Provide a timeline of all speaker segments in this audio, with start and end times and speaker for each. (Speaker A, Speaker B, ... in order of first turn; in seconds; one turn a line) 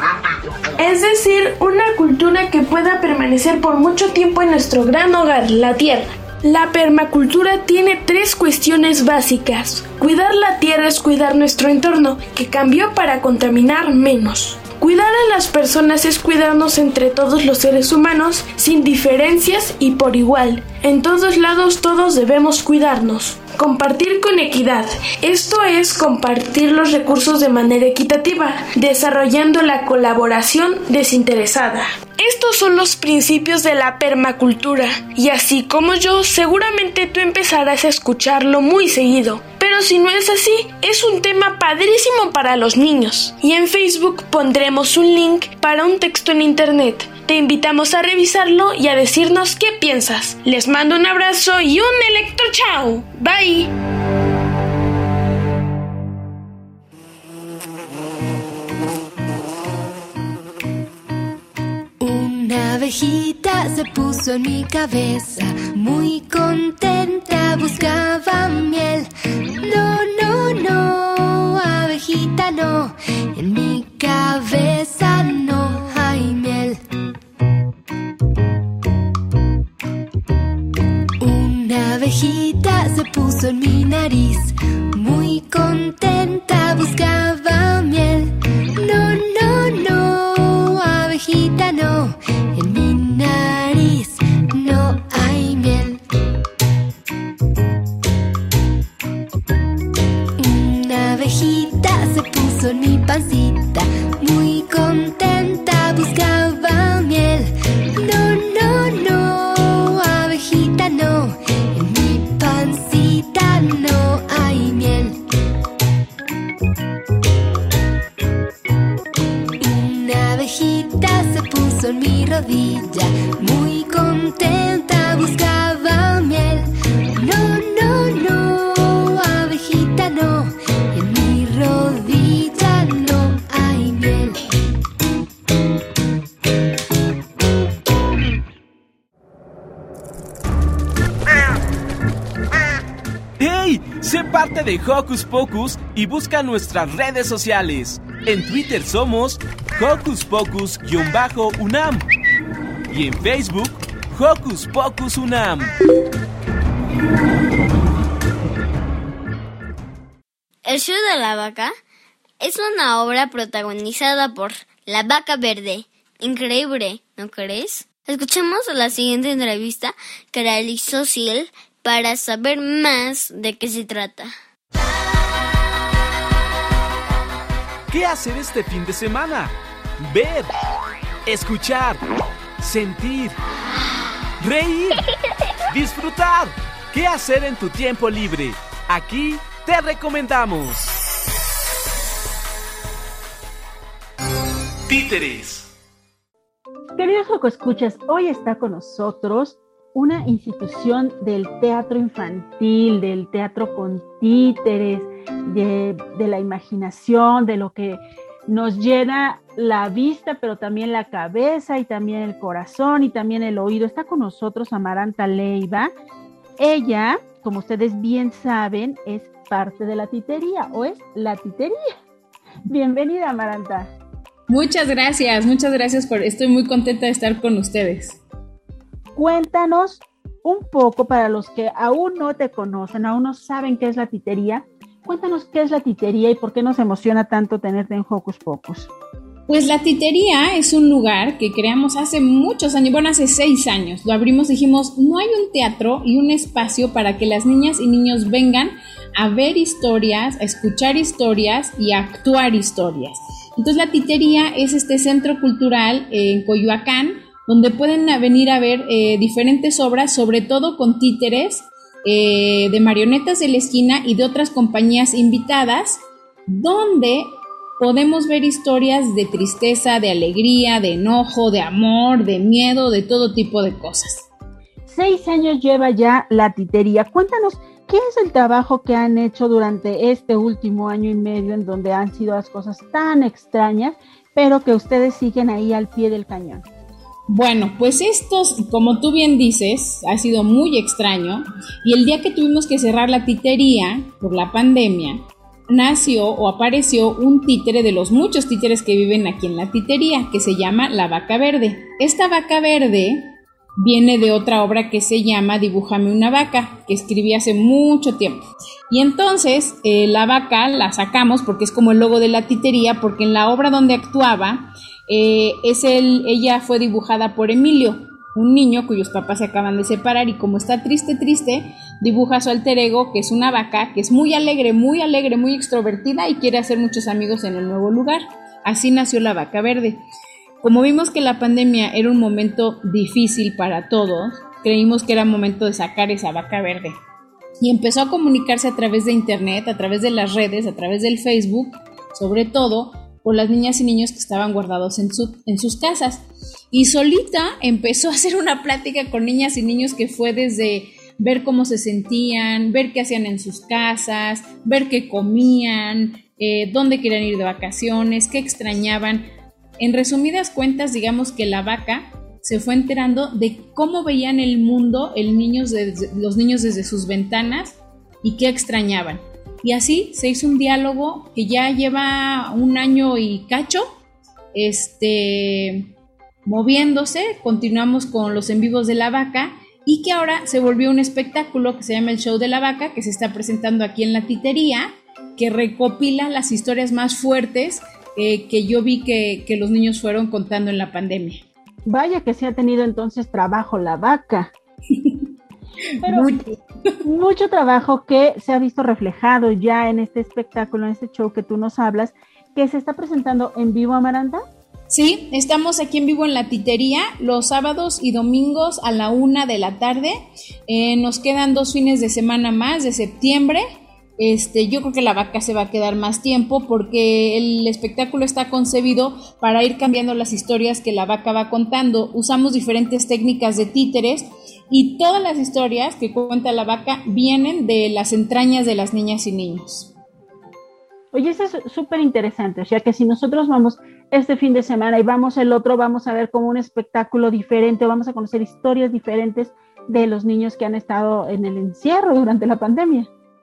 Speaker A: 0.8-53.7
Speaker B: 62.0-69.1
Speaker B: 69.6-76.8
Speaker B: 81.2-96.0
Speaker B: 100.4-115.2
Speaker B: 119.6-134.4
Speaker C: 143.4-152.0
Speaker C: 152.9-155.7
Speaker D: 160.6-161.7
Speaker D: 162.4-174.3
Speaker C: 177.9-180.5
Speaker C: 181.2-182.0
Speaker C: 182.6-183.3
Speaker C: 184.4-185.0
Speaker C: 185.7-190.9
Speaker C: 194.9-195.7
Speaker E: 197.0-215.9
Speaker E: 216.6-221.8
Speaker E: 222.7-223.9
Speaker F: 224.5-228.2
Speaker E: 229.2-238.9
Speaker F: 239.5-274.3
Speaker E: 274.9-286.6
Speaker F: 287.3-330.0
Speaker F: 330.6-337.0
Speaker F: 337.6-374.0
Speaker F: 374.5-375.9
Speaker F: 376.4-391.4
Speaker E: 391.9-394.5
Speaker E: 396.0-396.3
Speaker F: 396.1-396.5
Speaker E: 397.0-404.4
Speaker F: 404.9-413.6
Speaker F: 414.2-429.9
Speaker E: 431.1-443.1